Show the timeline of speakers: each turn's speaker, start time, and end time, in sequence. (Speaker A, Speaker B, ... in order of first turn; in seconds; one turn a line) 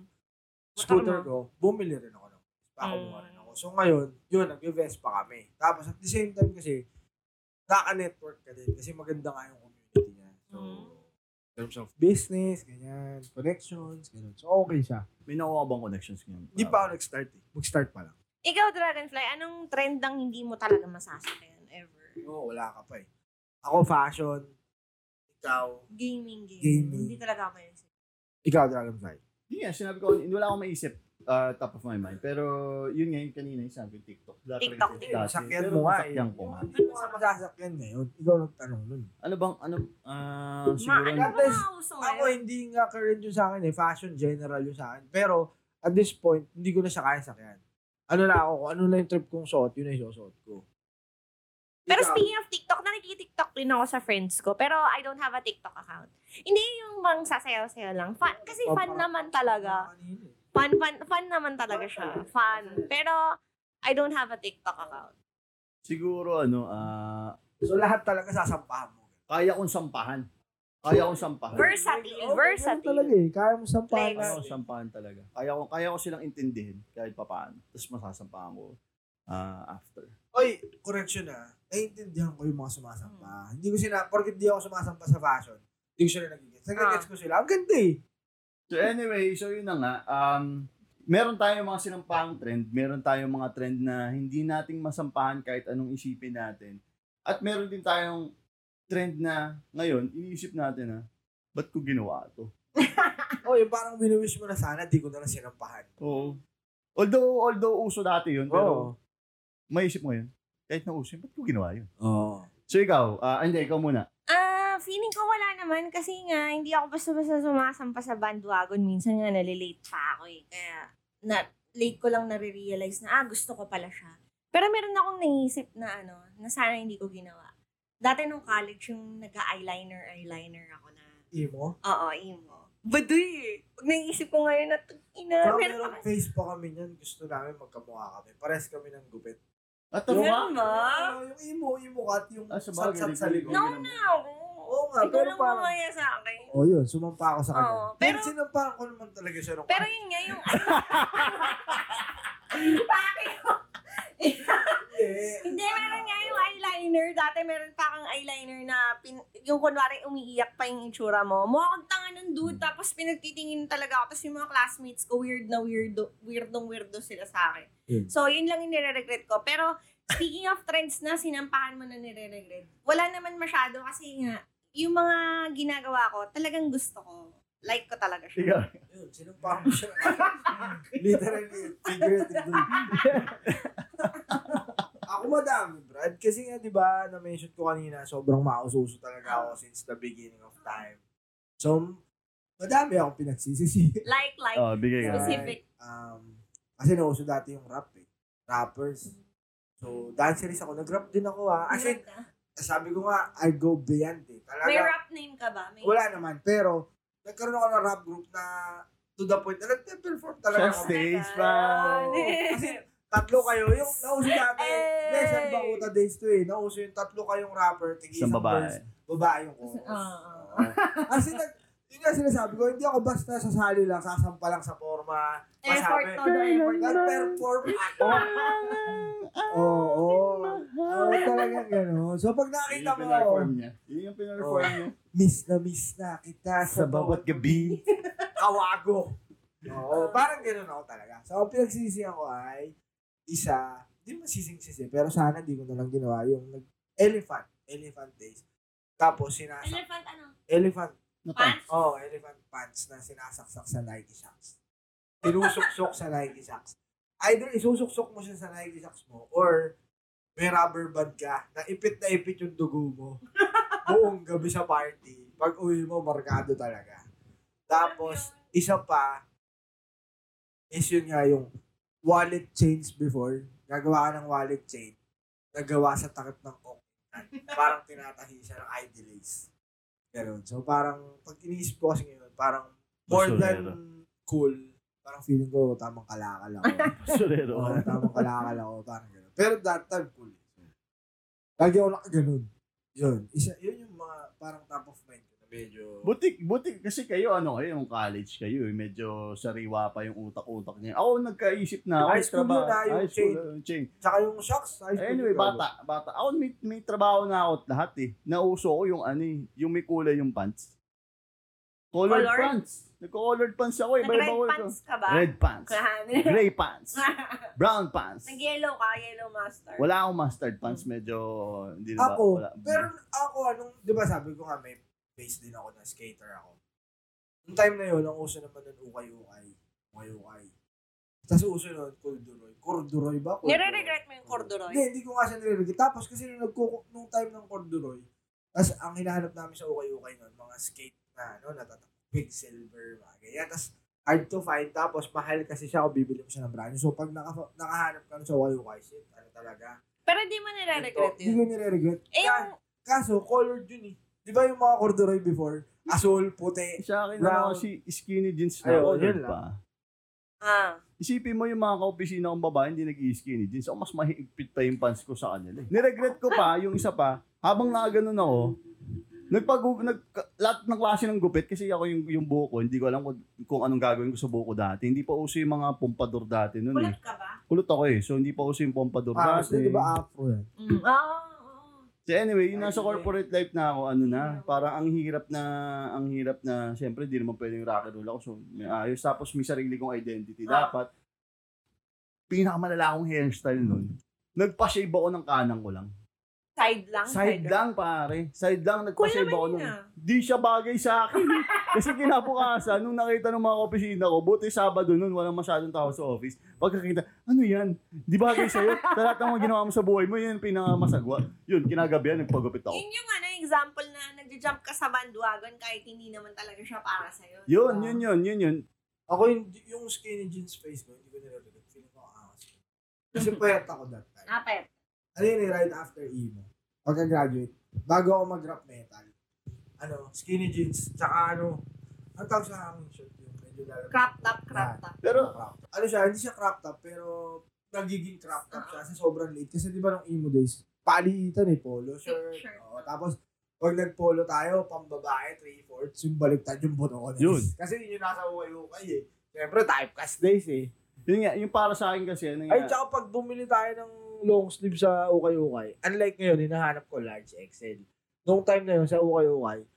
Speaker A: 0.8-6.8
Speaker B: 0.8-1.3
Speaker B: 2.8-3.5
Speaker A: 7.7-11.0
Speaker B: 10.5-10.9
Speaker A: 11.6-15.0
Speaker C: 15.3-16.9
Speaker A: 16.5-18.1
Speaker B: 18.4-22.2
Speaker A: 22.2-23.0
Speaker A: 23.6-24.5
Speaker A: 25.4-25.8
Speaker B: 25.9-27.8
Speaker A: 26.6-27.1
Speaker A: 28.4-29.2
Speaker C: 29.5-36.7
Speaker B: 34.6-35.2
Speaker A: 35.0-39.1
Speaker B: 36.7-37.2
Speaker C: 39.2-41.4
Speaker B: 40.8-42.3
Speaker A: 41.1-50.6
Speaker A: 51.9-52.2
Speaker B: 51.9-59.9
Speaker A: 58.2-60.4
Speaker B: 60.5-63.2
Speaker A: 61.7-62.8
Speaker B: 63.8-65.1
Speaker C: 65.8-67.3
Speaker A: 67.6-69.1
Speaker C: 69.3-70.2
Speaker C: 70.8-71.6
Speaker A: 71.5-74.6
Speaker B: 71.5-73.1
Speaker B: 73.9-74.3
Speaker C: 74.2-78.8
Speaker C: 79.3-80.1
Speaker A: 80.3-88.0
Speaker B: 83.0-83.3
Speaker B: 86.8-87.1
Speaker C: 88.7-98.3
Speaker C: 98.9-101.0
Speaker C: 101.5-102.5
Speaker B: 102.8-103.4
Speaker A: 103.4-105.9
Speaker C: 106.0-106.4
Speaker B: 106.1-106.4
Speaker C: 107.0-108.9
Speaker A: 108.5-108.9
Speaker C: 109.7-111.9
Speaker A: 112.0-112.5
Speaker C: 112.7-114.0
Speaker B: 114.3-127.5
Speaker B: 128.0-131.1
Speaker A: 131.3-131.7
Speaker B: 131.8-136.0
Speaker A: 135.4-139.4
Speaker C: 139.9-140.5
Speaker A: 140.1-143.7
Speaker B: 140.1-141.1
Speaker C: 142.5-144.0
Speaker B: 143.5-146.5
Speaker A: 144.7-145.7
Speaker A: 146.5-150.0
Speaker B: 147.5-148.3
Speaker B: 149.7-151.8
Speaker C: 150.8-151.3
Speaker B: 152.5-153.6
Speaker B: 154.2-154.8
Speaker A: 154.8-156.4
Speaker B: 155.4-178.6
Speaker C: 178.4-178.7
Speaker A: 178.9-183.4
Speaker B: 180.0-180.7
Speaker B: 181.9-183.4
Speaker C: 184.3-184.8
Speaker A: 185.1-191.0
Speaker B: 189.2-189.5
Speaker A: 191.6-192.0
Speaker A: 192.6-194.0
Speaker B: 194.1-195.6
Speaker C: 194.6-195.5
Speaker A: 195.0-199.1
Speaker A: 199.8-202.0
Speaker B: 201.7-202.2
Speaker A: 202.6-204.9
Speaker B: 204.6-205.9
Speaker A: 205.8-208.5
Speaker A: 209.2-210.9
Speaker C: 210.5-212.1
Speaker B: 210.6-212.8
Speaker A: 211.6-226.3
Speaker B: 213.5-215.8
Speaker C: 218.1-218.8
Speaker B: 219.6-221.2
Speaker B: 225.6-227.0
Speaker C: 226.2-227.4
Speaker A: 226.8-228.3
Speaker C: 228.0-231.6
Speaker B: 228.0-228.8
Speaker A: 229.5-233.5
Speaker C: 232.7-234.9
Speaker A: 234.4-237.7
Speaker C: 236.7-237.8
Speaker B: 237.9-238.3
Speaker A: 238.4-239.1
Speaker A: 239.7-242.7
Speaker B: 239.9-240.4
Speaker A: 243.3-248.4
Speaker A: 249.0-249.8
Speaker B: 249.6-250.3
Speaker A: 250.5-250.9
Speaker C: 251.2-251.6
Speaker B: 251.3-251.7
Speaker A: 251.7-254.5
Speaker A: 255.2-259.7
Speaker B: 255.3-255.7
Speaker A: 260.4-263.2
Speaker B: 263.5-263.8
Speaker A: 263.8-267.0
Speaker B: 267.7-268.4
Speaker A: 267.7-269.2
Speaker A: 270.7-271.5
Speaker A: 272.0-274.9
Speaker A: 275.5-279.5
Speaker A: 280.1-287.0
Speaker C: 283.1-283.8
Speaker B: 286.6-286.9
Speaker C: 287.0-288.3
Speaker A: 287.5-290.7
Speaker A: 291.6-296.1
Speaker C: 296.0-303.9
Speaker A: 302.0-303.4
Speaker A: 304.0-305.6
Speaker C: 305.0-310.7
Speaker C: 311.9-317.0
Speaker B: 312.1-312.5
Speaker B: 314.0-316.4
Speaker B: 316.9-317.5
Speaker C: 317.6-318.4
Speaker B: 318.2-319.9
Speaker C: 319.8-322.9
Speaker A: 322.0-326.6
Speaker A: 327.5-330.5
Speaker A: 331.3-338.0
Speaker B: 333.4-334.8
Speaker A: 338.6-349.7
Speaker B: 350.1-351.4
Speaker A: 350.7-357.6
Speaker B: 352.1-352.5
Speaker C: 356.8-359.5
Speaker A: 358.6-359.4
Speaker B: 360.4-360.8
Speaker C: 361.0-368.5
Speaker B: 366.1-366.4
Speaker C: 369.3-376.9
Speaker B: 376.7-377.4
Speaker C: 377.5-379.9
Speaker A: 379.1-380.5
Speaker B: 380.6-381.9
Speaker C: 382.1-390.9
Speaker A: 382.5-383.1
Speaker B: 384.0-384.6
Speaker B: 390.5-390.7
Speaker C: 392.3-395.9
Speaker B: 396.6-397.6
Speaker C: 397.0-412.8
Speaker B: 399.0-399.8
Speaker B: 401.2-401.7
Speaker B: 408.3-409.4
Speaker B: 412.7-417.6
Speaker C: 417.5-418.6
Speaker A: 417.7-418.0
Speaker A: 419.1-422.6
Speaker A: 423.1-424.3
Speaker B: 424.3-424.7
Speaker A: 425.1-429.1
Speaker A: 429.8-431.6
Speaker A: 432.2-450.7
Speaker B: 433.9-435.0
Speaker C: 435.0-435.3
Speaker B: 438.5-438.8
Speaker B: 442.1-442.9
Speaker C: 447.2-447.5
Speaker C: 451.1-452.7
Speaker A: 452.5-459.6